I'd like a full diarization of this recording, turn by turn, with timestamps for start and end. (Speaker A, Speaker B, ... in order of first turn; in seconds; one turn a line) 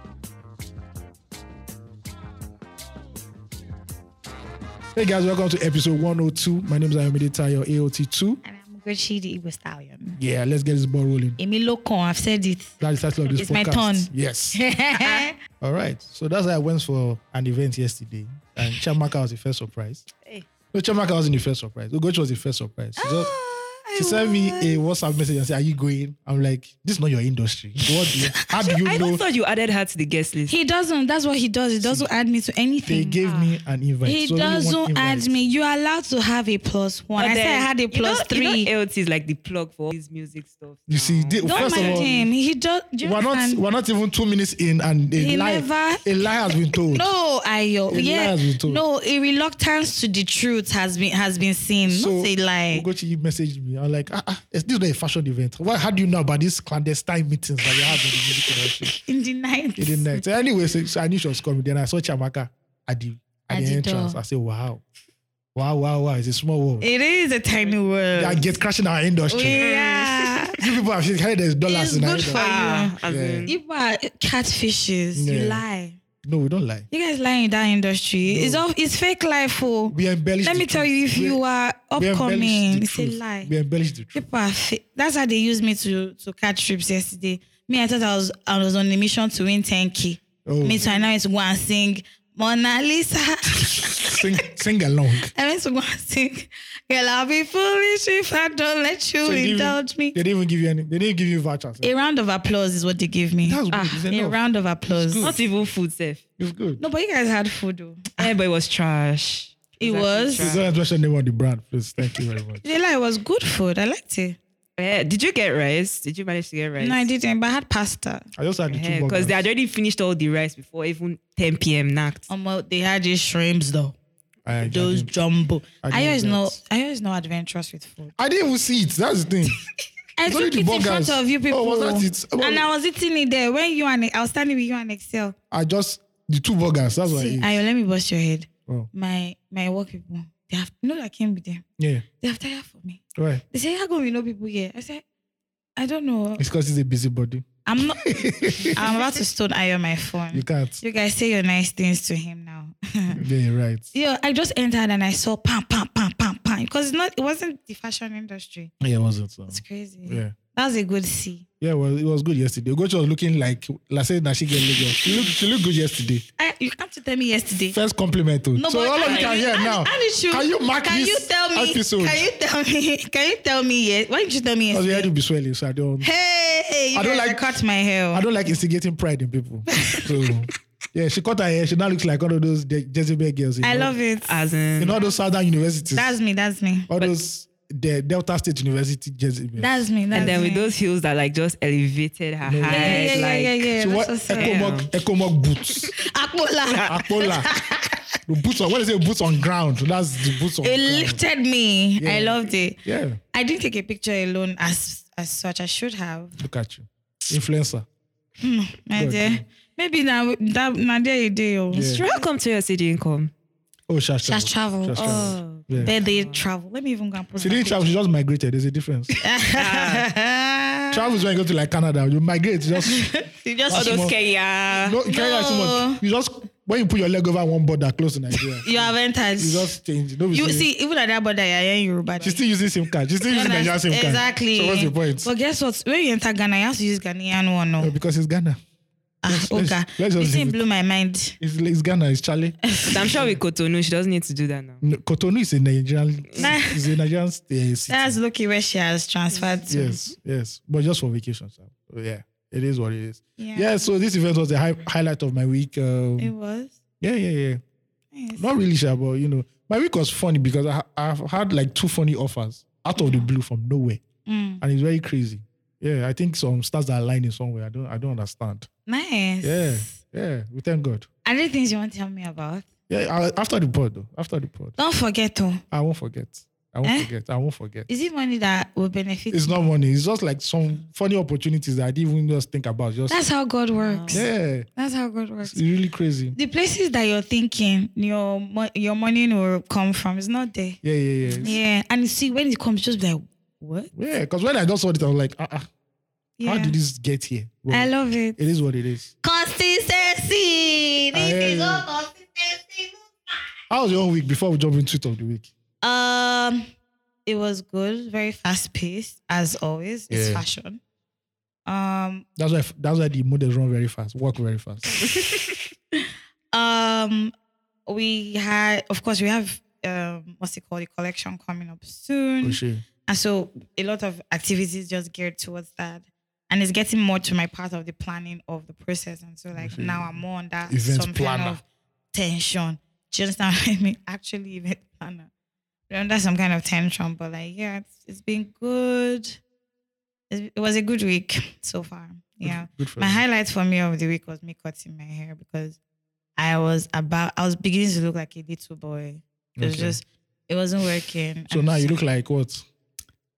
Speaker A: 5.0-8.4
Speaker B: 8.4-10.2
Speaker A: 10.2-11.4
Speaker B: 11.4-12.7
Speaker A: 12.8-14.6
Speaker B: 13.4-15.3
Speaker A: 15.6-20.1
Speaker A: 20.7-23.3
Speaker B: 23.0-24.8
Speaker A: 23.9-29.2
Speaker C: 28.7-30.6
Speaker B: 30.5-33.2
Speaker A: 31.8-32.1
Speaker A: 32.9-35.4
Speaker B: 34.0-38.7
Speaker C: 37.2-42.2
Speaker A: 40.9-42.2
Speaker B: 41.4-43.6
Speaker A: 43.0-47.1
Speaker B: 45.2-46.1
Speaker B: 46.9-52.9
Speaker A: 47.9-48.8
Speaker A: 51.9-59.0
Speaker B: 58.9-60.1
Speaker A: 59.8-64.8
Speaker B: 63.5-64.2
Speaker A: 65.5-66.9
Speaker B: 66.8-68.6
Speaker A: 68.2-69.7
Speaker B: 69.3-70.6
Speaker C: 69.6-70.3
Speaker A: 70.5-72.5
Speaker B: 71.7-73.0
Speaker C: 72.3-73.5
Speaker A: 73.0-73.5
Speaker B: 73.5-76.0
Speaker A: 75.2-75.6
Speaker A: 76.2-76.9
Speaker B: 76.9-83.5
Speaker A: 78.2-78.6
Speaker A: 79.9-81.4
Speaker A: 82.0-84.2
Speaker B: 84.1-94.3
Speaker A: 90.5-90.8
Speaker C: 90.8-91.1
Speaker A: 94.0-95.3
Speaker B: 95.3-100.2
Speaker A: 99.2-101.9
Speaker B: 101.8-105.3
Speaker A: 103.5-105.4
Speaker C: 105.2-106.2
Speaker A: 106.4-106.8
Speaker B: 106.8-108.3
Speaker C: 108.2-110.7
Speaker B: 109.8-110.5
Speaker A: 110.4-112.6
Speaker B: 112.6-114.4
Speaker C: 114.8-117.1
Speaker B: 116.8-118.3
Speaker A: 118.4-119.4
Speaker C: 118.7-122.3
Speaker B: 122.3-124.0
Speaker A: 124.5-125.1
Speaker B: 124.6-128.2
Speaker A: 125.8-126.6
Speaker A: 128.2-129.6
Speaker B: 130.2-135.4
Speaker A: 130.2-132.7
Speaker A: 135.5-137.6
Speaker B: 137.1-141.7
Speaker A: 141.8-142.1
Speaker B: 142.2-145.0
Speaker A: 143.2-143.4
Speaker B: 145.8-146.4
Speaker A: 146.4-147.5
Speaker B: 147.7-153.2
Speaker A: 148.0-148.9
Speaker A: 150.3-150.8
Speaker A: 153.2-153.9
Speaker B: 153.9-158.7
Speaker A: 158.8-160.3
Speaker B: 159.5-161.4
Speaker A: 161.6-166.2
Speaker B: 166.4-167.8
Speaker A: 167.7-172.2
Speaker B: 168.6-175.1
Speaker C: 169.0-169.3
Speaker A: 174.7-176.1
Speaker B: 176.0-178.2
Speaker A: 176.9-177.4
Speaker A: 178.1-183.9
Speaker B: 179.8-180.1
Speaker B: 183.6-184.4
Speaker C: 184.2-185.0
Speaker A: 184.8-186.2
Speaker B: 185.9-186.9
Speaker A: 186.9-190.4
Speaker B: 189.6-190.7
Speaker C: 190.1-193.7
Speaker A: 192.4-193.2
Speaker B: 192.7-194.6
Speaker A: 193.8-195.9
Speaker C: 194.3-194.9
Speaker B: 196.0-198.2
Speaker A: 196.9-197.5
Speaker A: 198.3-201.2
Speaker B: 200.6-202.8
Speaker A: 202.0-203.2
Speaker B: 203.3-206.4
Speaker A: 206.4-207.9
Speaker B: 208.4-212.3
Speaker A: 209.0-209.4
Speaker A: 211.7-212.0
Speaker C: 211.7-213.3
Speaker A: 213.9-215.9
Speaker B: 214.2-217.9
Speaker C: 215.0-216.5
Speaker A: 217.4-219.2
Speaker B: 219.2-221.1
Speaker C: 219.6-220.1
Speaker A: 220.9-223.1
Speaker B: 222.8-224.2
Speaker A: 223.7-224.2
Speaker C: 223.7-224.9
Speaker A: 224.7-230.7
Speaker B: 225.0-226.0
Speaker B: 228.6-229.8
Speaker B: 230.3-232.4
Speaker A: 232.2-235.3
Speaker B: 233.3-237.9
Speaker A: 237.8-238.6
Speaker B: 239.2-241.4
Speaker A: 239.3-240.6
Speaker A: 241.4-242.6
Speaker B: 242.7-243.1
Speaker C: 242.8-244.8
Speaker A: 244.8-248.2
Speaker B: 246.4-246.8
Speaker B: 247.9-250.1
Speaker A: 249.7-256.3
Speaker B: 253.4-253.7
Speaker B: 256.2-256.7
Speaker A: 257.0-257.6
Speaker B: 258.1-258.5
Speaker A: 258.4-264.0
Speaker B: 263.0-263.3
Speaker B: 264.3-264.6
Speaker A: 264.6-268.7
Speaker B: 268.9-269.9
Speaker A: 269.4-271.1
Speaker B: 271.2-272.7
Speaker A: 272.9-274.8
Speaker B: 274.8-275.6
Speaker A: 275.7-277.9
Speaker B: 277.9-279.6
Speaker A: 279.3-283.2
Speaker B: 283.1-285.6
Speaker C: 283.8-284.2
Speaker A: 284.1-284.7
Speaker A: 285.5-286.4
Speaker B: 286.3-290.8
Speaker A: 290.8-291.6
Speaker C: 291.2-291.6
Speaker B: 291.4-293.9
Speaker A: 293.9-295.7
Speaker B: 296.4-296.8
Speaker A: 296.4-299.1
Speaker B: 297.7-298.4
Speaker B: 299.2-303.4
Speaker A: 301.1-301.9
Speaker A: 303.7-305.5
Speaker B: 305.8-306.7
Speaker B: 307.3-310.8
Speaker A: 310.1-310.4
Speaker B: 311.7-312.2
Speaker A: 312.4-315.0
Speaker B: 316.5-317.3
Speaker B: 317.9-331.6
Speaker A: 322.4-322.9
Speaker A: 329.6-331.6
Speaker B: 332.1-335.3
Speaker B: 335.9-339.4
Speaker B: 340.3-345.8
Speaker A: 342.4-343.2
Speaker B: 346.4-352.0
Speaker A: 349.6-350.0
Speaker A: 351.5-352.7